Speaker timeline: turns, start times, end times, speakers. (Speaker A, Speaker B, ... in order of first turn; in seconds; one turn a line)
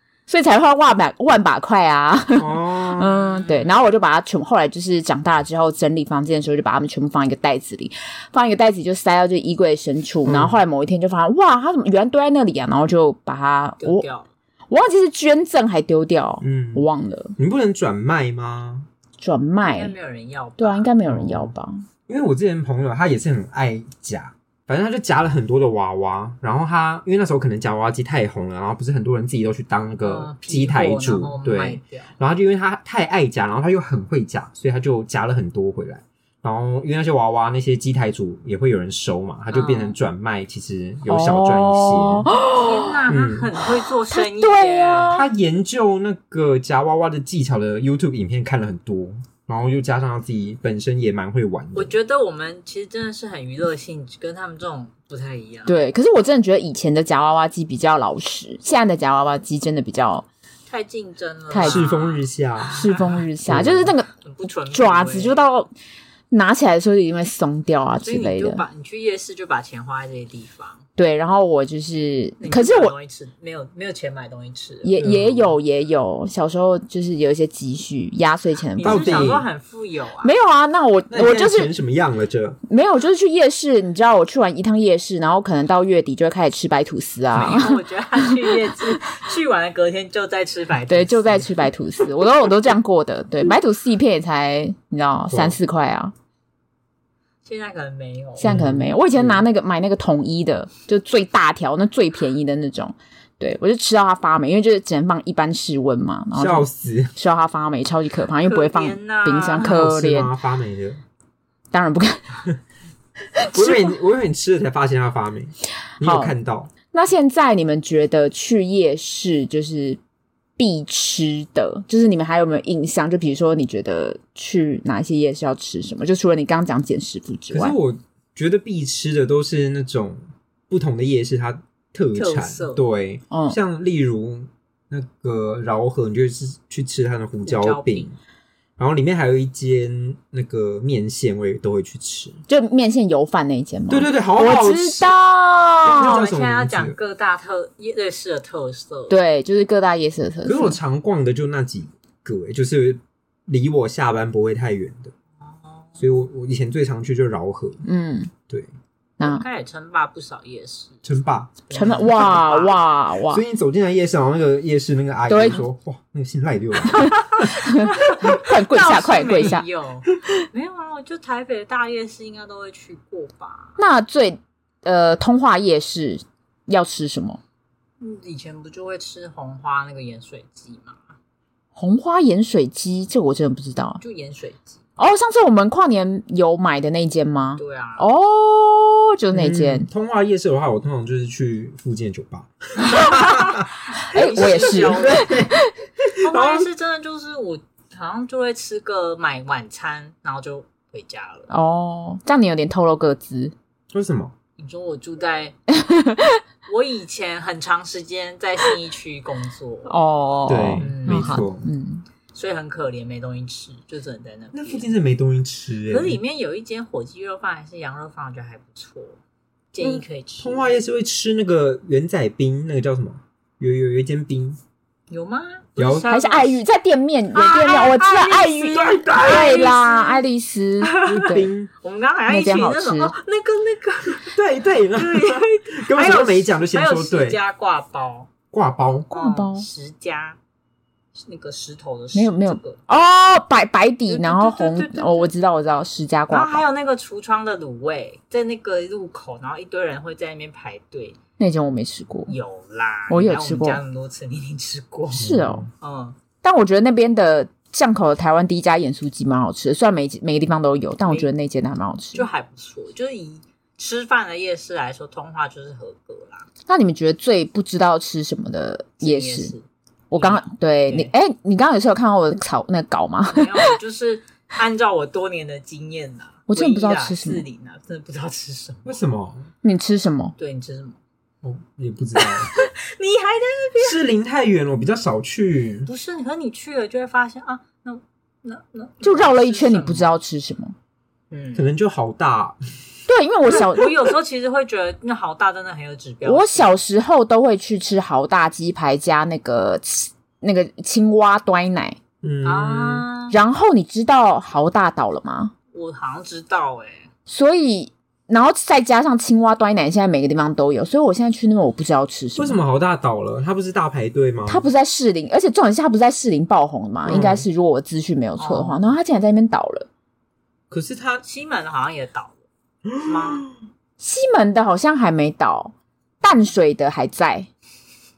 Speaker A: 0.3-14.1
Speaker B: 2.4-3.5
Speaker B: 10.2-10.6
Speaker C: 13.8-14.3
Speaker A: 14.7-17.4
Speaker B: 16.4-16.9
Speaker B: 17.4-18.9
Speaker A: 19.2-19.9
Speaker C: 19.6-20.9
Speaker A: 20.6-21.9
Speaker B: 21.1-21.5
Speaker B: 22.1-42.3
Speaker C: 30.0-32.1
Speaker C: 39.5-40.0
Speaker A: 41.1-43.0
Speaker C: 42.5-45.2
Speaker B: 43.1-43.5
Speaker A: 44.1-45.3
Speaker B: 45.1-51.9
Speaker C: 51.7-55.8
Speaker A: 55.7-60.3
Speaker C: 60.7-63.2
Speaker A: 61.5-61.9
Speaker B: 61.6-62.9
Speaker A: 62.7-64.1
Speaker B: 63.5-63.9
Speaker C: 64.2-65.4
Speaker A: 64.7-65.7
Speaker A: 66.3-68.6
Speaker C: 68.0-70.8
Speaker A: 71.0-72.9
Speaker C: 72.4-75.0
Speaker A: 74.8-79.3
Speaker B: 75.0-75.6
Speaker C: 78.8-80.3
Speaker B: 78.8-79.5
Speaker A: 80.2-81.7
Speaker B: 81.1-82.6
Speaker A: 82.7-88.7
Speaker C: 87.3-91.7
Speaker A: 90.9-96.1
Speaker B: 95.3-95.6
Speaker C: 97.5-98.5
Speaker A: 98.4-110.3
Speaker B: 98.4-99.5
Speaker B: 106.4-107.2
Speaker C: 108.4-109.8
Speaker B: 109.6-111.0
Speaker A: 111.7-112.5
Speaker A: 113.4-114.0
Speaker B: 113.5-116.7
Speaker A: 116.0-116.3
Speaker A: 116.9-120.0
Speaker A: 120.6-127.8
Speaker B: 127.5-138.1
Speaker C: 132.1-132.8
Speaker A: 133.3-133.6
Speaker C: 137.4-138.1
Speaker B: 138.8-142.4
Speaker A: 142.5-146.2
Speaker B: 143.9-145.2
Speaker B: 145.8-147.0
Speaker C: 145.9-149.2
Speaker A: 149.1-150.8
Speaker B: 150.4-155.1
Speaker C: 155.4-156.0
Speaker B: 156.0-157.8
Speaker A: 157.8-158.3
Speaker A: 159.2-159.5
Speaker C: 159.2-161.0
Speaker B: 161.0-162.3
Speaker C: 161.7-162.8
Speaker A: 161.7-163.4
Speaker B: 163.3-167.5
Speaker A: 165.3-165.6
Speaker C: 167.0-173.8
Speaker A: 167.0-169.7
Speaker A: 173.8-177.4
Speaker C: 178.0-181.2
Speaker A: 181.8-184.0
Speaker C: 184.0-184.8
Speaker A: 185.0-189.9
Speaker C: 187.6-188.1
Speaker B: 189.3-196.7
Speaker C: 192.9-195.4
Speaker A: 194.0-195.7
Speaker C: 196.2-201.5
Speaker A: 201.5-203.5
Speaker B: 203.9-204.3
Speaker C: 204.6-205.6
Speaker A: 205.8-206.4
Speaker C: 206.7-210.0
Speaker A: 209.9-212.1
Speaker B: 210.5-211.7
Speaker C: 210.8-211.5
Speaker C: 212.3-214.9
Speaker B: 214.5-216.2
Speaker C: 215.9-219.2
Speaker C: 219.7-220.8
Speaker B: 219.9-224.6
Speaker C: 225.1-226.6
Speaker B: 225.8-226.1
Speaker A: 226.1-231.5
Speaker C: 227.3-230.2
Speaker B: 228.8-229.5
Speaker C: 230.8-234.3
Speaker B: 231.1-231.7
Speaker A: 232.3-233.1
Speaker B: 234.2-237.4
Speaker C: 234.9-238.3
Speaker B: 238.5-239.1
Speaker A: 239.1-239.7
Speaker C: 239.1-240.4
Speaker C: 241.2-242.8
Speaker A: 242.1-246.6
Speaker C: 244.1-245.3
Speaker C: 246.3-251.2
Speaker A: 251.4-252.3
Speaker C: 252.3-256.2
Speaker A: 253.1-253.8
Speaker A: 255.1-255.7
Speaker B: 255.2-255.7
Speaker A: 256.4-262.3
Speaker C: 262.1-266.5
Speaker A: 266.7-269.5
Speaker C: 269.0-271.1
Speaker A: 270.1-273.8
Speaker C: 273.3-278.9
Speaker A: 276.5-277.4
Speaker B: 278.9-279.5
Speaker A: 279.6-280.4
Speaker C: 280.4-281.0
Speaker B: 281.4-282.5
Speaker C: 282.2-284.0
Speaker B: 283.8-285.9
Speaker C: 285.9-290.1
Speaker A: 289.0-290.8
Speaker C: 291.3-291.7
Speaker B: 291.6-292.6
Speaker A: 293.1-293.9
Speaker C: 293.5-296.8
Speaker A: 296.2-302.0
Speaker B: 302.2-303.1
Speaker C: 302.4-303.4
Speaker A: 303.3-305.5
Speaker C: 305.7-307.1
Speaker A: 307.3-312.6
Speaker B: 312.4-314.7
Speaker A: 314.5-319.9
Speaker B: 317.1-317.5
Speaker C: 318.4-318.9
Speaker B: 320.7-321.2
Speaker C: 321.2-322.4
Speaker B: 322.9-323.4
Speaker C: 323.0-323.5
Speaker A: 324.0-327.5